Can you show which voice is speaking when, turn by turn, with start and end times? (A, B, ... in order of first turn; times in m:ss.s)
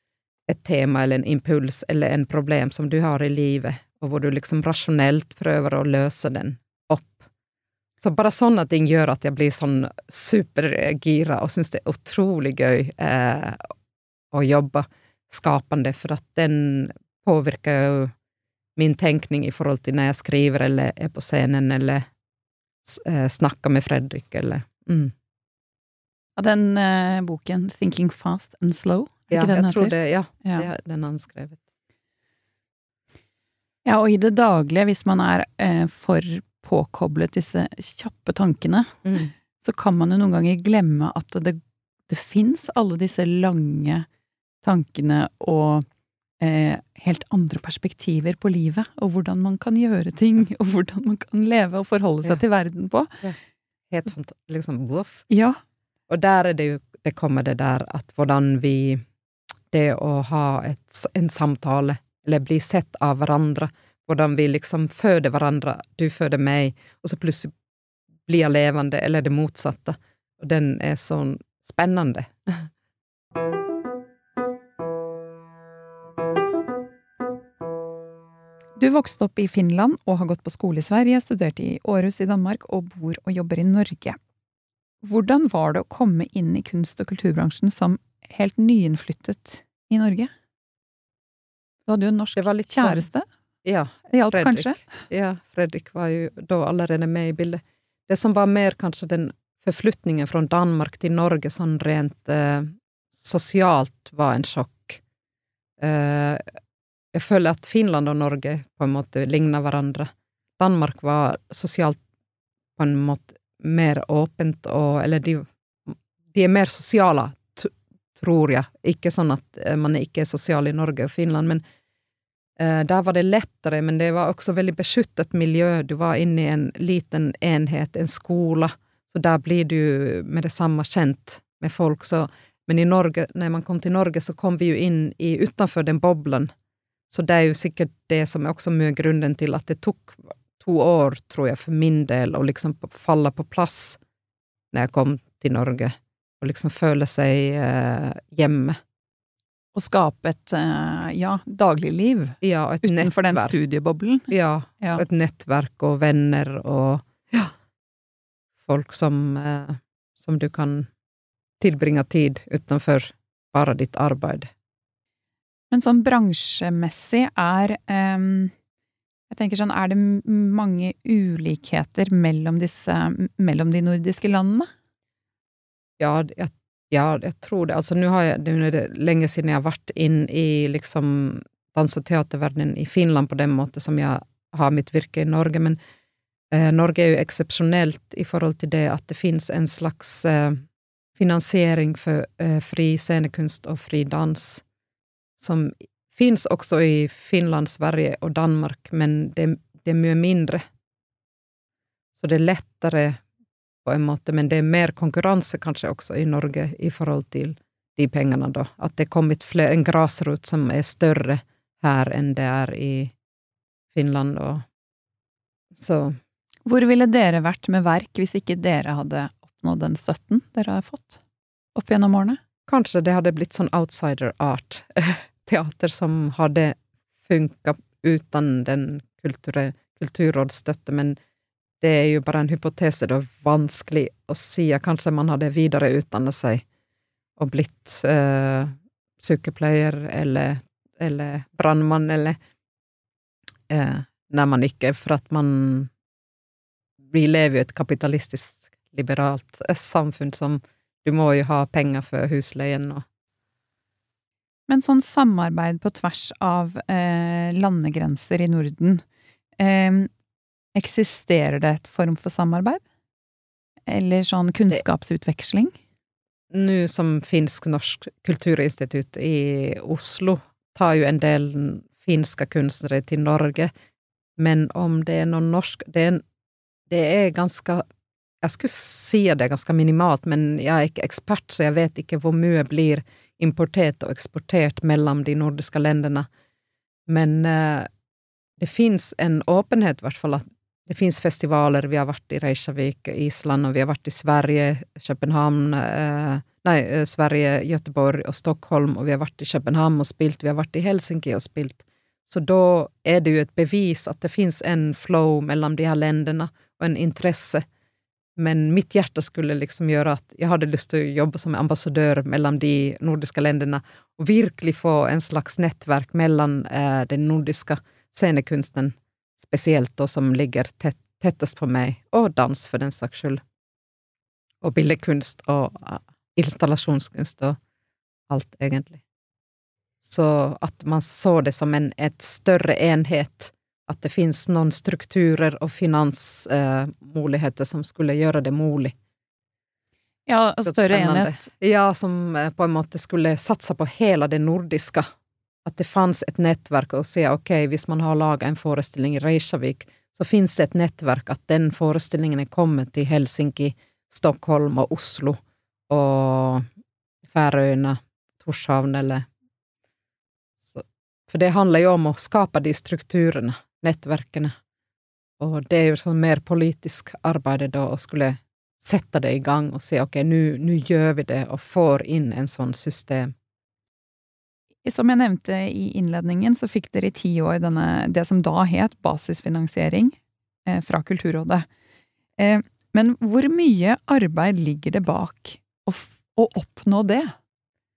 0:00.5-0:07.2 A
0:08.0-0:13.7 A
0:14.3-0:18.1 A
0:18.8-0:22.0 A
0:22.8-0:25.1 A
0:26.4-0:30.7 B
0:29.3-0:31.6 A
0:33.8-0:39.0 B
0:39.0-0:39.3 A
0:39.6-0:44.0 B
0:44.6-0:45.8 B
0:46.4-0:53.1 B
0:53.9-0:55.2 A
0:55.3-0:55.6 B
0:56.1-0:59.0 A
0:59.7-1:07.5 A
1:08.2-1:12.7 A
1:18.8-1:24.2 B
1:25.0-1:30.3 B
1:31.9-1:33.3 B
1:32.4-1:33.0 A
1:33.6-1:45.0 A
1:34.1-1:34.9 B
1:45.8-1:46.4 A
1:47.1-1:52.0 A
1:52.8-2:01.6 A
2:02.6-2:16.5 A
2:17.1-2:24.0 A
2:24.7-2:28.8 A
2:29.7-2:35.0 B
2:32.4-2:33.5 A
2:34.3-2:37.5 A
2:38.6-2:40.9 A
2:41.6-2:44.5 A
2:45.7-2:48.5 B
2:49.3-2:54.7 B
2:56.0-3:05.8 A
3:06.5-3:10.6 A
3:11.2-3:14.6 A
3:15.4-3:20.6 A
3:22.2-3:23.2 A
3:23.8-3:33.1 A
3:33.9-3:34.6 A
3:35.7-3:36.2 A
3:36.6-3:41.2 B
3:41.7-3:42.4 B
3:42.7-3:51.2 A
3:51.8-3:56.6 A
3:57.4-4:02.4 A
4:03.7-4:05.9 A
4:07.1-4:13.0 A
4:14.7-4:19.0 B
4:19.6-4:20.1 B
4:20.7-4:22.8 B
4:23.9-4:25.8 B
4:26.5-4:33.7 A
4:34.4-4:36.2 A
4:36.9-4:37.8 A
4:38.4-4:46.3 A
4:47.1-4:47.9 A
4:48.6-5:07.6 A
5:08.4-5:23.4 A
5:24.6-5:27.6 A
5:28.3-5:29.0 A
5:30.0-5:38.9 A
5:40.3-5:41.4 B
5:40.6-5:45.1 A
5:45.6-5:55.4 A
5:55.9-5:56.6 A
5:57.2-5:59.3 A
6:00.7-6:04.6 A
6:05.4-6:13.3 A
6:14.8-6:21.7 B
6:22.4-6:27.3 B